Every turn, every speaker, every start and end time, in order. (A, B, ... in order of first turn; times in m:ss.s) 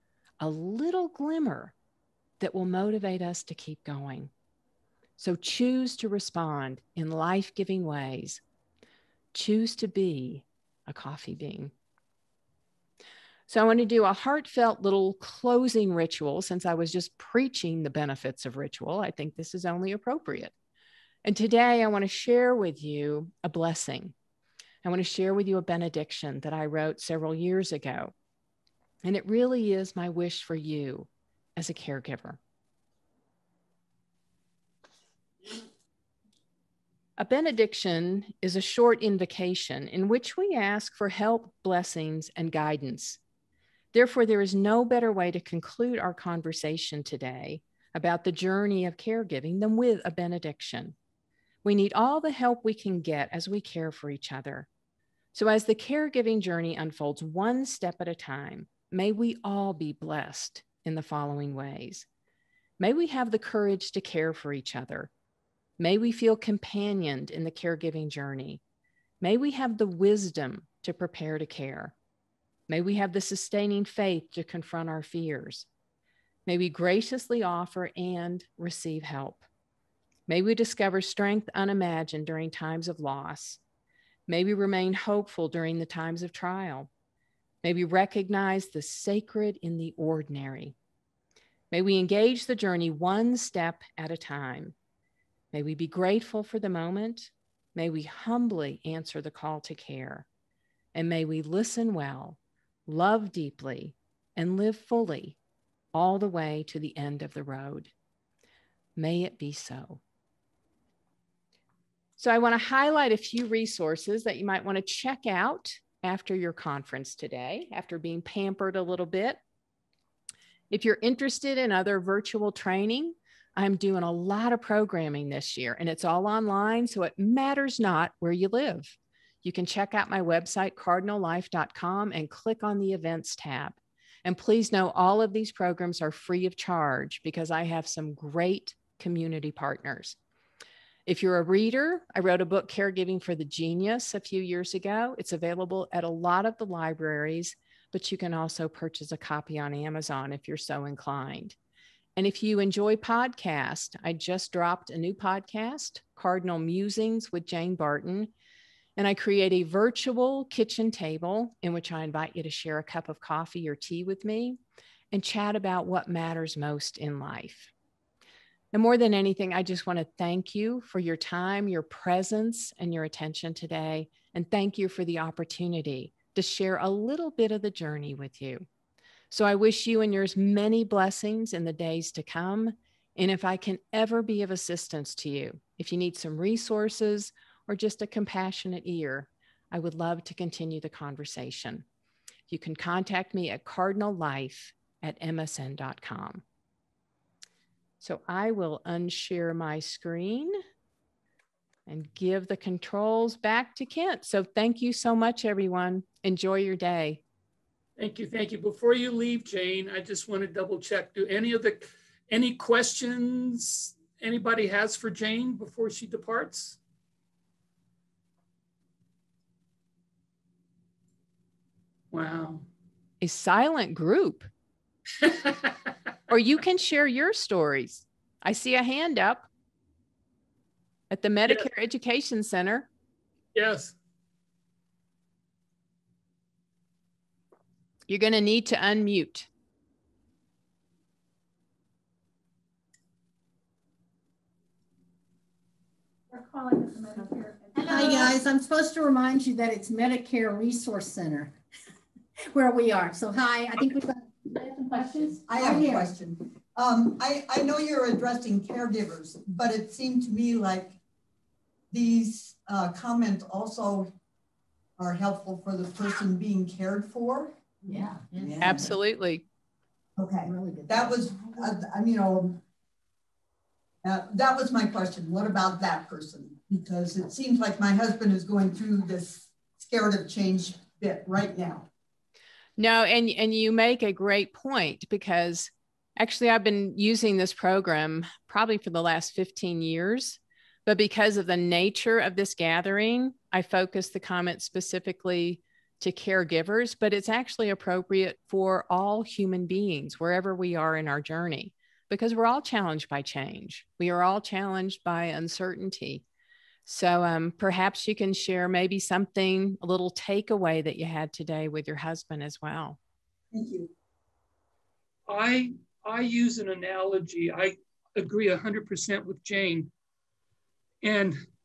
0:00.4-0:01.7 A
0:02.4-0:04.3 A
0:05.2-0:08.4 A
0:09.3-0:11.7 A
0:13.5-0:20.5 A
0:21.2-0:24.1 A
0:24.8-0:28.1 A
0:29.0-0:32.4 A
0:37.2-0:43.2 A
0:43.9-0:51.0 A
0:51.6-0:54.7 A
0:55.3-1:02.1 A
1:02.8-1:05.1 A
1:05.8-1:08.6 A
1:09.2-1:12.0 A
1:12.7-1:15.7 A
1:16.5-1:19.5 A
1:20.3-1:23.6 A
1:24.3-1:26.9 A
1:27.6-1:30.8 A
1:31.7-1:34.8 A
1:35.5-1:40.3 A
1:41.0-1:45.4 A
1:45.9-1:47.9 A
1:49.0-1:50.0 A
1:52.2-1:59.4 A
2:00.7-2:20.2 A
2:21.1-2:31.6 A
2:32.2-2:38.3 A
2:39.0-2:44.6 A
2:45.1-2:47.7 A
2:48.7-2:58.7 A
2:59.3-3:11.8 A
3:12.5-3:16.4 A
3:18.0-3:20.6 A
3:21.9-3:27.2 A
3:28.0-3:36.8 B
3:42.1-3:42.7 B
3:43.2-3:44.5 A
3:45.2-3:45.7 B
3:46.3-3:49.5 A
3:51.1-3:52.9 A
3:53.6-3:54.0 B
3:58.1-3:59.5 A
4:06.3-4:11.5 C
4:12.5-4:16.1 C
4:15.5-4:21.0 D
4:21.9-4:24.1 D
4:25.0-4:27.6 D
4:27.8-4:28.9 C
4:28.3-4:28.9 D
4:28.6-4:29.4 A
4:30.2-4:32.6 D
4:30.4-4:31.7 C
4:34.0-4:41.9 D
4:42.8-5:06.2 A
5:06.9-5:13.0 A
5:13.5-5:13.9 D
5:15.3-5:19.9 B
5:21.0-5:21.4 B